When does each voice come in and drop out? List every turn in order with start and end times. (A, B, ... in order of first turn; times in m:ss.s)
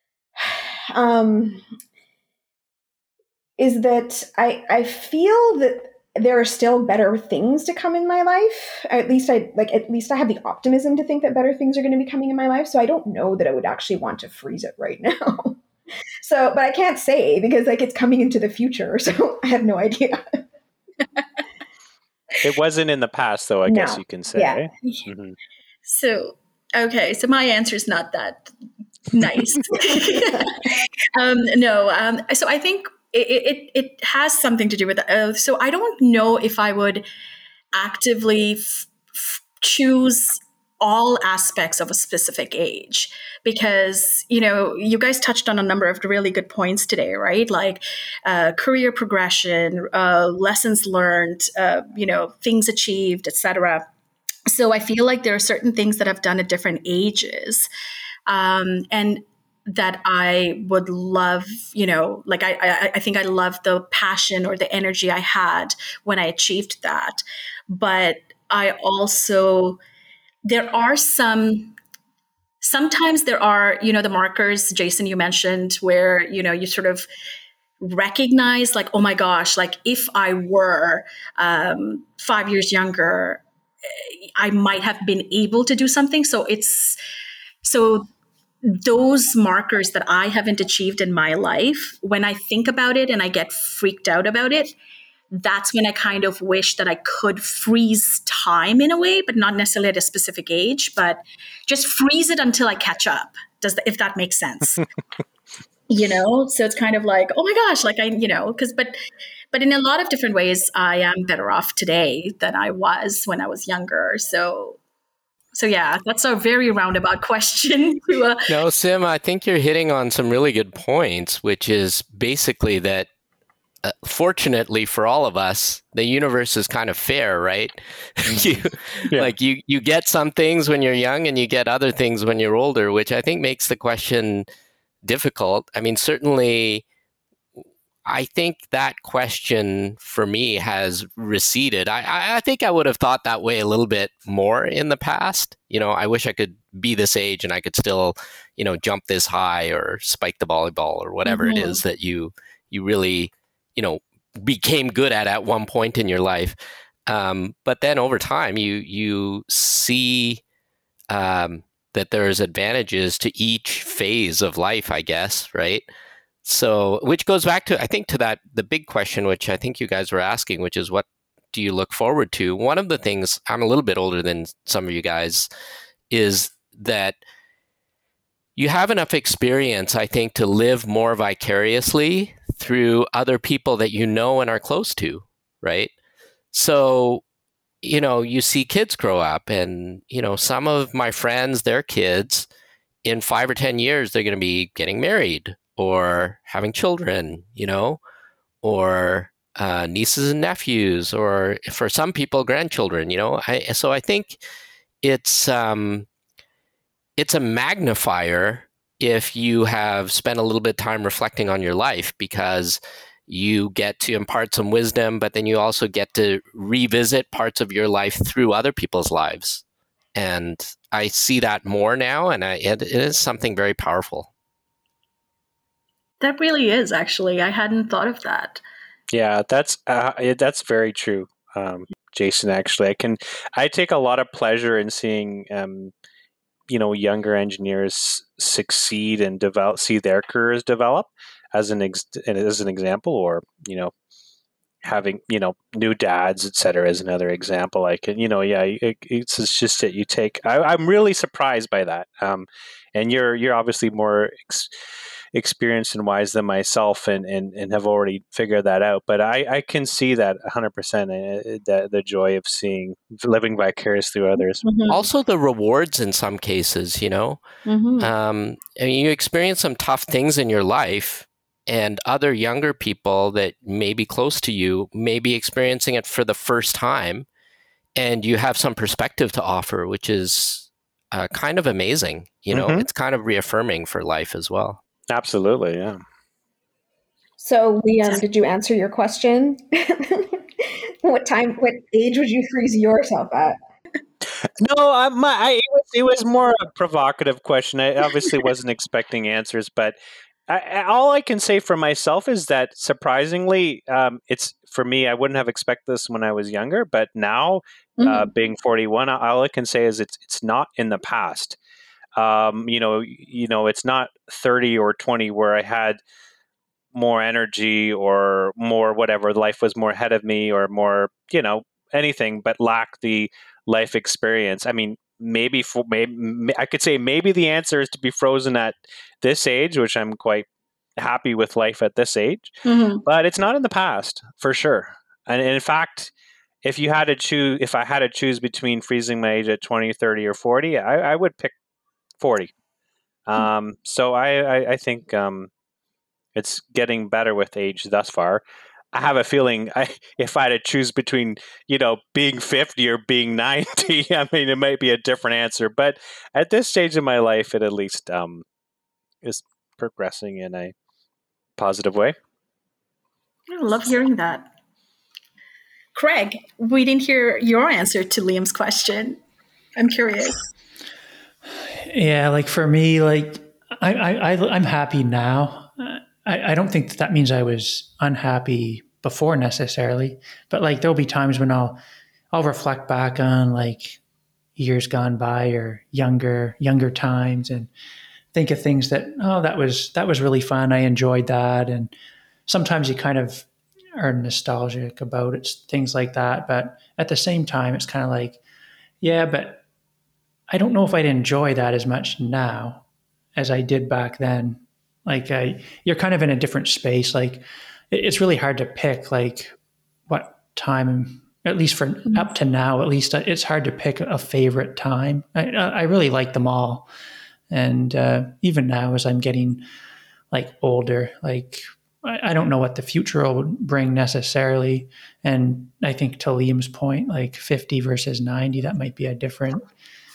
0:00.4-0:01.6 A
0:03.6-0:15.6 A
0:16.2-0:20.4 A
0:22.4-0:25.4 B
0:23.7-0:24.6 A
0:25.8-0:28.5 C
0:29.1-0:37.0 C
0:37.7-0:53.8 C
0:54.5-0:57.7 C
0:58.3-1:09.8 C
1:10.4-1:11.8 C
1:12.6-1:17.1 C
1:17.8-1:23.4 C
1:24.0-1:27.0 C
1:27.6-1:28.1 C
1:28.6-1:34.8 C
1:35.3-1:44.8 C
1:45.9-1:49.0 C
1:49.5-1:54.8 C
1:55.5-1:58.5 C
1:58.5-2:03.1 D
2:03.8-2:14.5 D
2:15.0-2:16.8 D
2:18.0-2:36.6 D
2:31.2-2:31.8 C
2:37.1-2:40.4 D
2:41.1-2:45.8 D
2:46.4-2:55.5 D
2:56.1-2:57.2 D
2:58.6-3:05.9 D
3:06.5-3:07.2 D
3:07.8-3:12.5 D
3:13.0-3:18.0 D
3:18.6-3:24.4 D
3:25.0-3:26.1 D
3:27.2-3:39.6 D
3:40.1-3:44.3 D
3:46.2-3:48.6 C
3:49.1-3:55.9 B
3:56.7-4:03.9 B
4:04.8-4:14.7 B
4:15.3-4:24.7 B
4:24.6-4:25.0 C
4:24.9-4:27.4 D
4:27.6-4:28.1 C
4:28.0-4:37.2 D
4:38.0-4:44.8 D
4:42.5-4:42.9 B
4:45.1-4:46.0 B
4:47.4-4:53.6 A
4:54.2-5:00.0 B
5:00.5-5:11.6 B
5:08.0-5:08.3 C
5:12.2-5:16.0 B
5:16.9-5:36.1 B
5:32.6-5:33.0 C
5:36.6-5:41.5 B
5:42.2-5:42.5 B
5:43.2-5:45.5 B
5:46.3-5:58.4 B
5:59.2-6:00.7 B
6:01.6-6:02.2 B
6:03.5-6:04.5 C
6:05.9-6:09.2 C
6:09.8-6:10.4 C
6:11.8-6:21.8 E
6:22.3-6:24.0 E
6:24.6-6:27.7 E
6:28.3-6:31.9 E
6:32.5-6:38.4 E
6:39.0-6:39.6 E
6:40.5-6:42.8 E
6:43.4-6:49.5 E
6:50.1-6:56.9 E
6:57.5-6:59.6 E
7:00.3-7:09.6 E